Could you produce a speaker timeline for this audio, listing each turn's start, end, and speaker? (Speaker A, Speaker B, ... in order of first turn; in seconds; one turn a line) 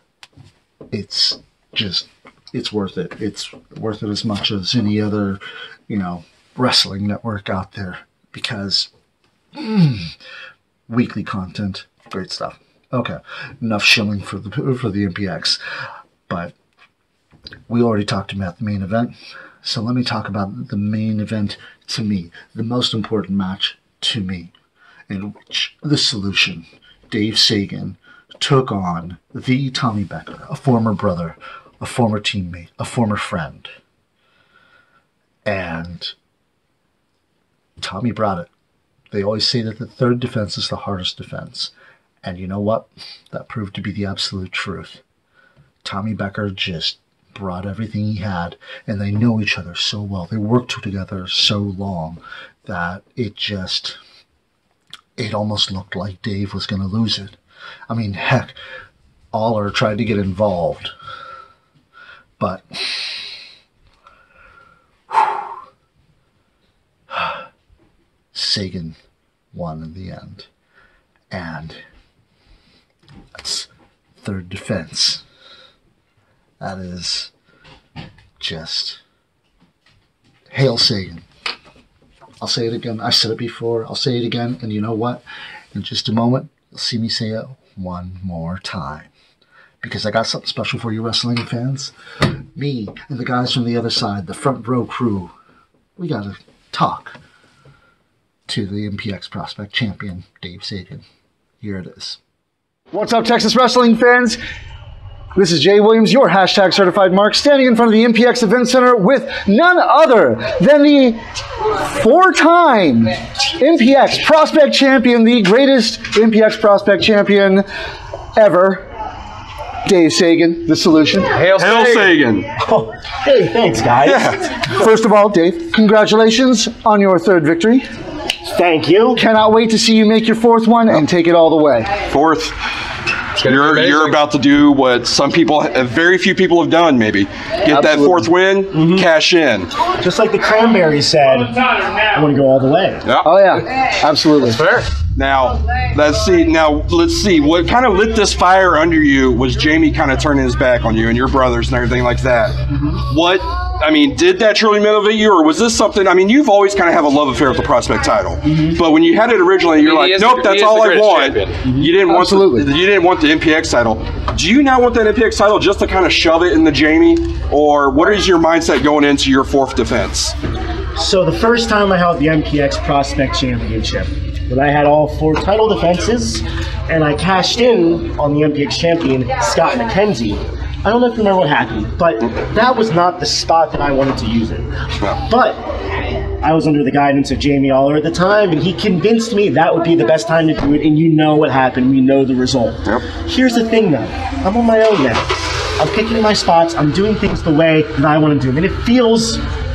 Speaker A: 0.9-8.9
Speaker A: 9.5-10.1
Speaker A: 10.9-15.6
Speaker A: 16.3-16.5
Speaker A: 17.7-24.5
Speaker A: 25.1-33.7
Speaker A: 35.4-36.1
Speaker A: 37.8-38.5
Speaker A: 39.1-41.7
Speaker A: 42.2-45.0
Speaker A: 45.8-54.0
Speaker A: 55.2-57.4
Speaker A: 57.9-58.5
Speaker A: 59.3-60.9
Speaker A: 62.4-63.3
Speaker A: 65.1-65.4
Speaker A: 67.1-67.4
Speaker A: 68.3-69.0
Speaker A: 69.5-70.5
Speaker A: 71.3-71.8
Speaker A: 73.4-73.7
Speaker A: 74.2-75.2
Speaker A: 76.6-77.3
Speaker A: 78.4-79.0
Speaker A: 80.5-81.2
Speaker A: 82.4-89.1
Speaker A: 89.8-91.9
Speaker A: 92.5-95.3
Speaker A: 96.0-97.2
Speaker A: 98.5-101.0
Speaker A: 101.6-102.2
Speaker A: 102.9-104.4
Speaker A: 105.3-111.2
Speaker A: 111.8-117.7
Speaker A: 118.3-118.8
Speaker A: 119.8-121.3
Speaker B: 121.3-122.2
Speaker C: 121.6-122.5
Speaker D: 122.6-124.6
Speaker C: 124.0-124.4
Speaker A: 124.7-127.8
Speaker D: 128.4-129.2
Speaker A: 129.1-131.9
Speaker C: 132.1-132.5
Speaker B: 133.4-134.2
Speaker C: 133.4-139.7
Speaker A: 137.7-138.3
Speaker D: 138.7-139.1
Speaker D: 140.0-143.0
Speaker A: 143.2-144.7
Speaker B: 144.4-144.9
Speaker C: 145.1-152.6
Speaker C: 153.1-170.3
Speaker D: 158.5-158.8
Speaker B: 159.8-161.6
Speaker A: 162.1-162.7
Speaker D: 170.9-184.7
Speaker D: 185.2-185.7
Speaker D: 186.4-199.4